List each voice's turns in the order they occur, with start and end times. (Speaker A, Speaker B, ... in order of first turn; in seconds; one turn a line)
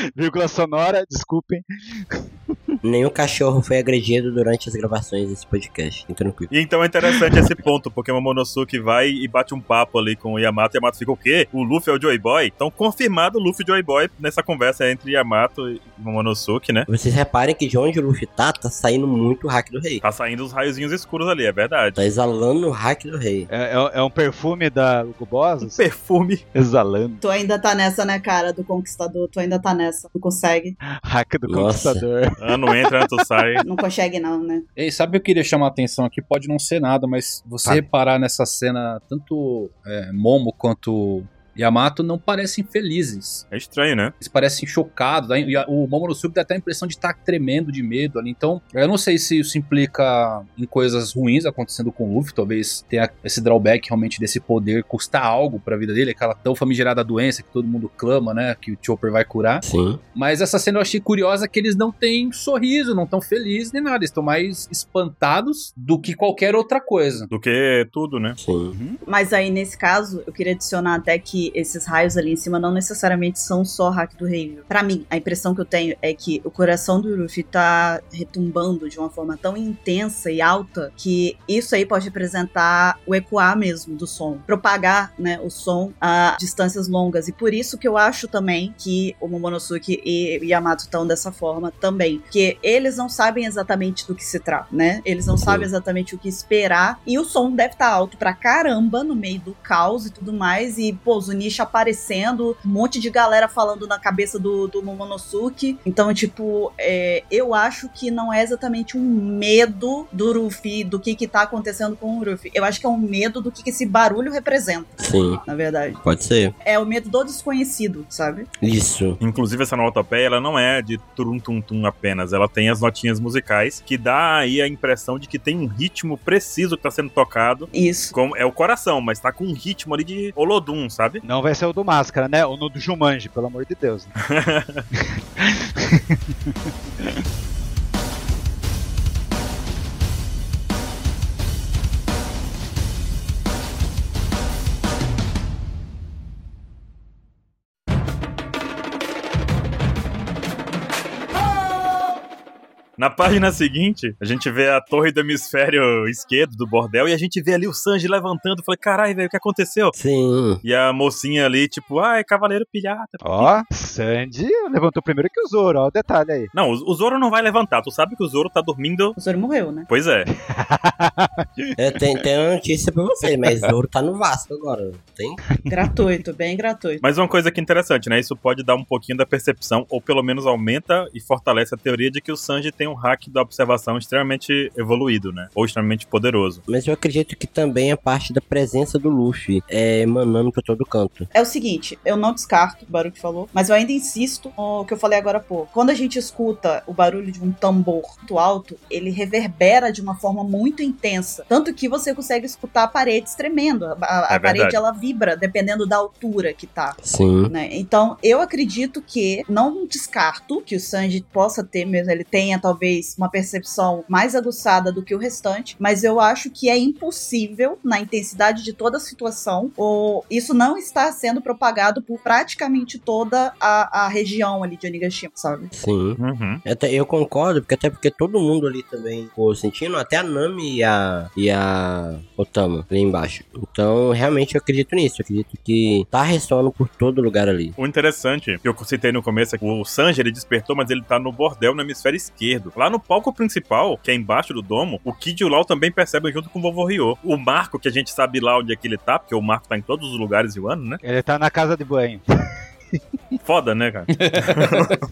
Speaker A: 0.1-2.8
Speaker B: 2.8-6.5
Speaker C: 6.5-16.9
Speaker B: 16.9-20.0
Speaker C: 20.0-22.0
Speaker B: 21.9-23.5
Speaker A: 23.5-25.8
Speaker C: 25.6-26.4
Speaker A: 26.5-27.2
Speaker D: 27.2-30.8
Speaker A: 31.0-33.1
Speaker B: 31.5-32.0
Speaker C: 32.4-33.6
Speaker D: 33.6-34.6
Speaker E: 34.8-43.4
Speaker C: 43.5-44.1
Speaker E: 44.2-59.6
Speaker B: 59.6-60.0
Speaker E: 60.1-67.3
Speaker C: 67.3-68.4
Speaker B: 68.4-68.7
Speaker A: 68.7-69.0
Speaker D: 69.1-116.0
Speaker B: 95.3-95.7
Speaker B: 115.0-115.4
Speaker B: 116.0-116.5
Speaker D: 116.6-118.5
Speaker B: 118.6-119.2
Speaker C: 119.2-131.2
Speaker D: 127.7-128.1
Speaker A: 131.2-134.1
Speaker C: 134.2-134.8
Speaker A: 135.0-137.2
Speaker C: 153.0-159.9
Speaker B: 159.9-160.6
Speaker C: 160.6-163.6
Speaker A: 163.2-166.5
Speaker C: 166.5-169.2
Speaker D: 169.2-169.9
Speaker C: 169.9-170.3
Speaker A: 170.5-171.7
Speaker B: 171.8-175.4
Speaker D: 175.7-177.0
Speaker C: 177.0-186.6
Speaker B: 186.7-191.3
Speaker D: 191.3-225.7
Speaker C: 204.3-204.8
Speaker B: 207.0-207.5
Speaker B: 225.7-237.8
Speaker C: 226.2-226.6
Speaker C: 237.8-251.0
Speaker A: 251.0-252.2
Speaker C: 253.4-255.0
Speaker E: 254.1-255.0